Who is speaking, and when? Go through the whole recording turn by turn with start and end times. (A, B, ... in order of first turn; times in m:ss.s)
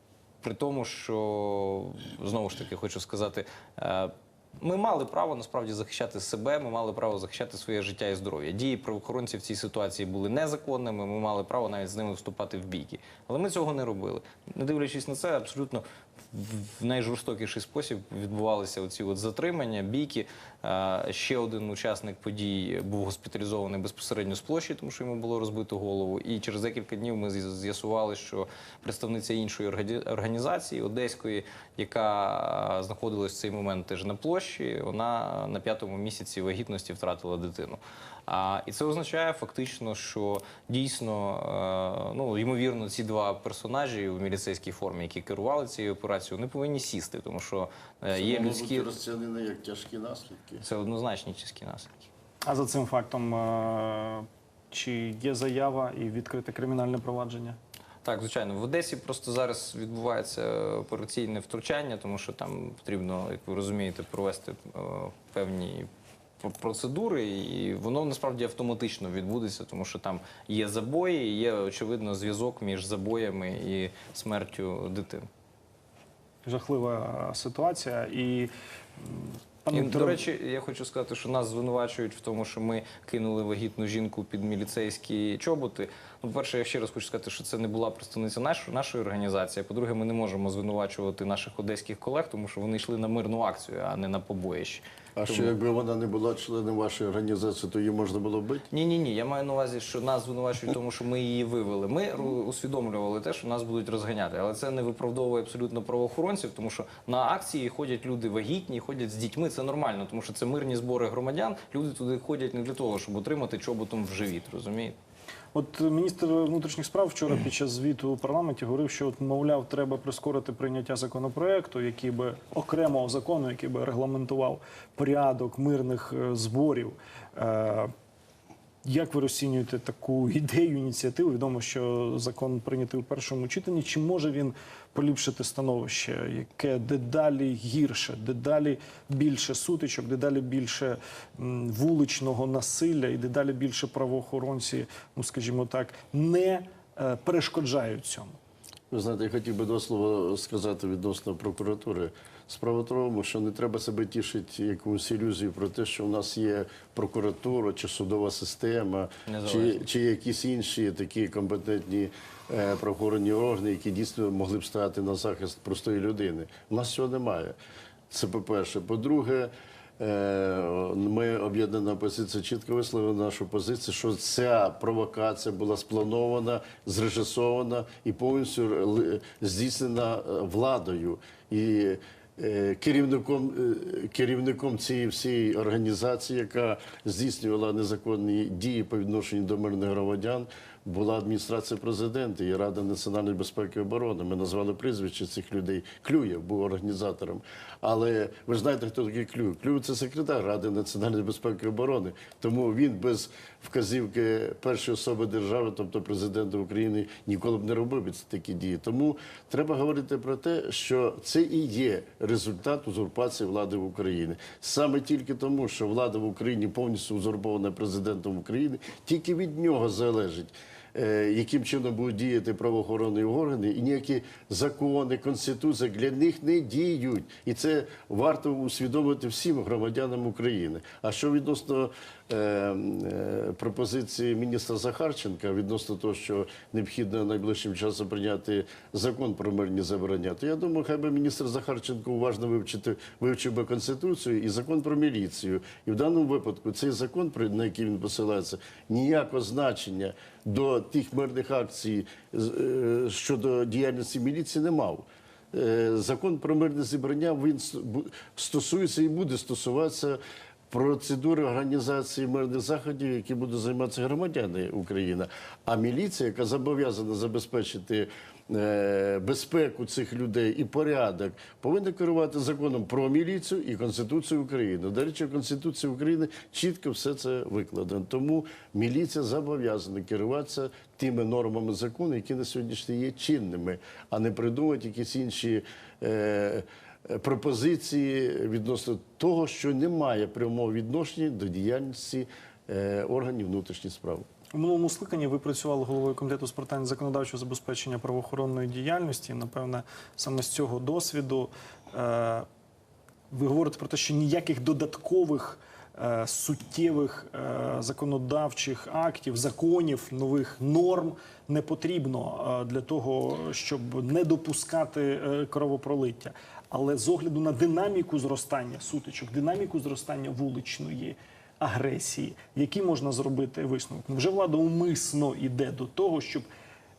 0:00.4-0:48.9 A
0:48.1-0:50.6 B
0:50.6-0:52.1 A
0:52.4-0:57.6 C
0:58.0-1:05.9 A
1:06.4-1:15.3 A
1:16.4-1:20.2 C
1:19.7-1:35.5 A
1:35.2-1:38.7 B
1:38.7-1:54.9 A
1:55.5-2:07.9 C
2:08.8-2:28.4 C
2:28.9-2:47.5 B
2:39.3-2:39.8 A
2:48.1-4:20.2 B
4:20.7-4:54.3 B
4:54.5-5:02.5 C
5:03.3-5:26.5 C